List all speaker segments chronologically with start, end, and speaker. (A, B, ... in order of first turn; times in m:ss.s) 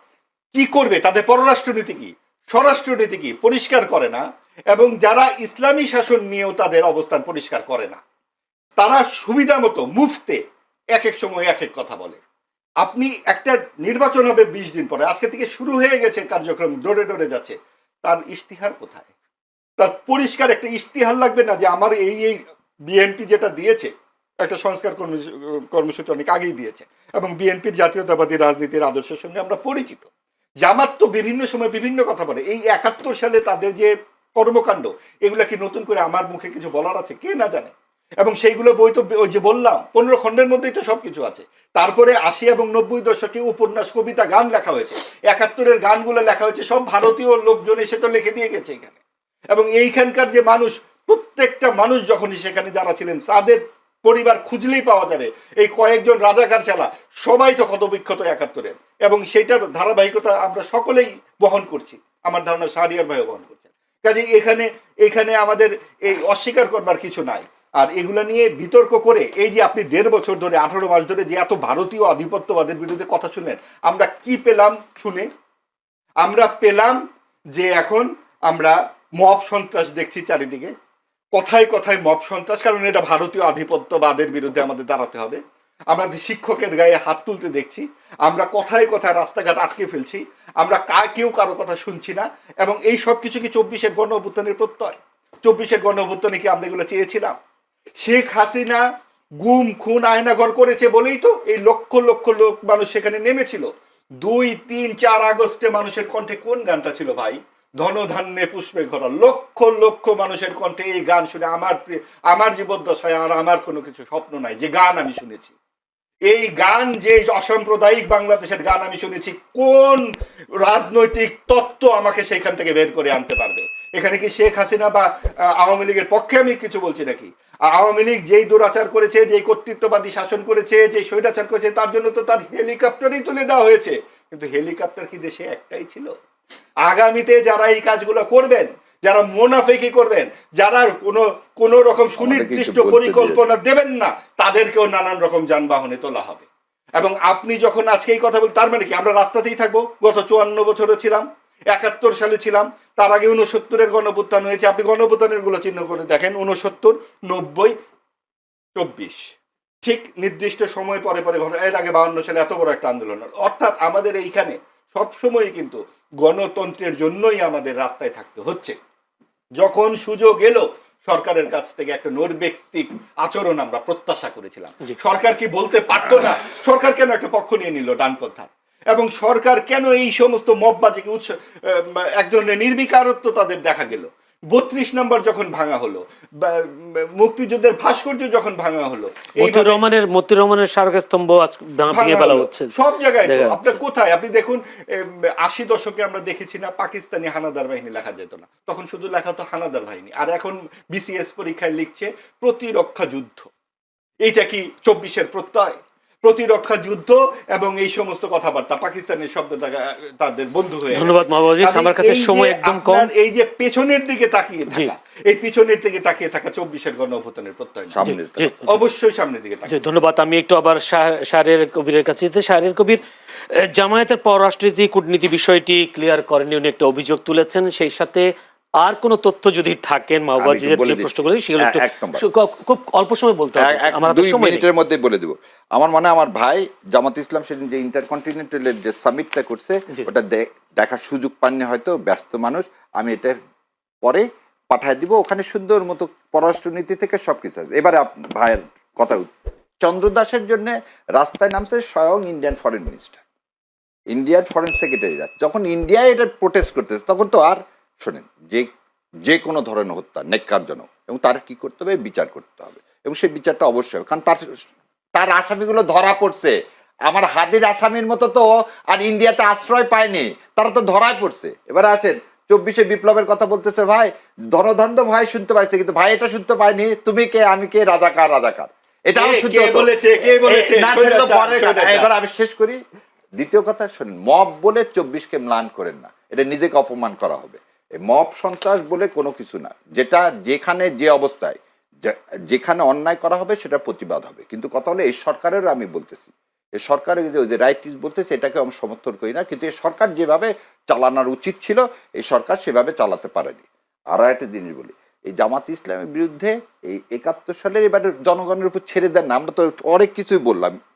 0:00.5-0:08.0 A
0:08.8-0:10.4 A
0:11.0-0:12.2 A
0:12.8-0:19.1 A
0:19.8-0:30.1 A
0:30.6-0:49.0 A
0:49.5-1:15.3 A
1:16.2-1:17.0 A
1:17.5-1:20.7 A
1:21.3-1:37.4 A
1:38.0-1:38.8 A
1:39.4-1:55.6 A
1:56.3-2:00.1 A
2:00.6-2:16.2 A
2:16.9-2:26.5 A
2:22.2-2:23.4 B
2:27.0-2:37.8 A
2:38.8-2:39.3 A
2:39.8-2:48.8 A
2:49.6-3:09.8 A
3:09.4-3:12.7 C
3:11.9-3:23.5 A
3:13.3-3:13.8 C
3:24.2-3:38.1 A
3:30.9-3:33.1 C
3:37.9-3:38.6 B
3:38.0-3:38.8 C
3:38.7-3:39.8 A
3:39.7-3:43.0 C
3:43.5-3:48.3 C
3:48.8-3:54.7 C
3:50.4-3:52.2 B
3:53.6-4:03.3 B
4:04.1-4:09.3 B
4:09.8-4:13.2 B
4:14.1-4:18.7 B
4:19.2-4:24.4 B
4:25.2-4:26.6 B
4:27.1-4:42.8 B
4:39.2-4:42.1 A
4:43.4-5:10.8 B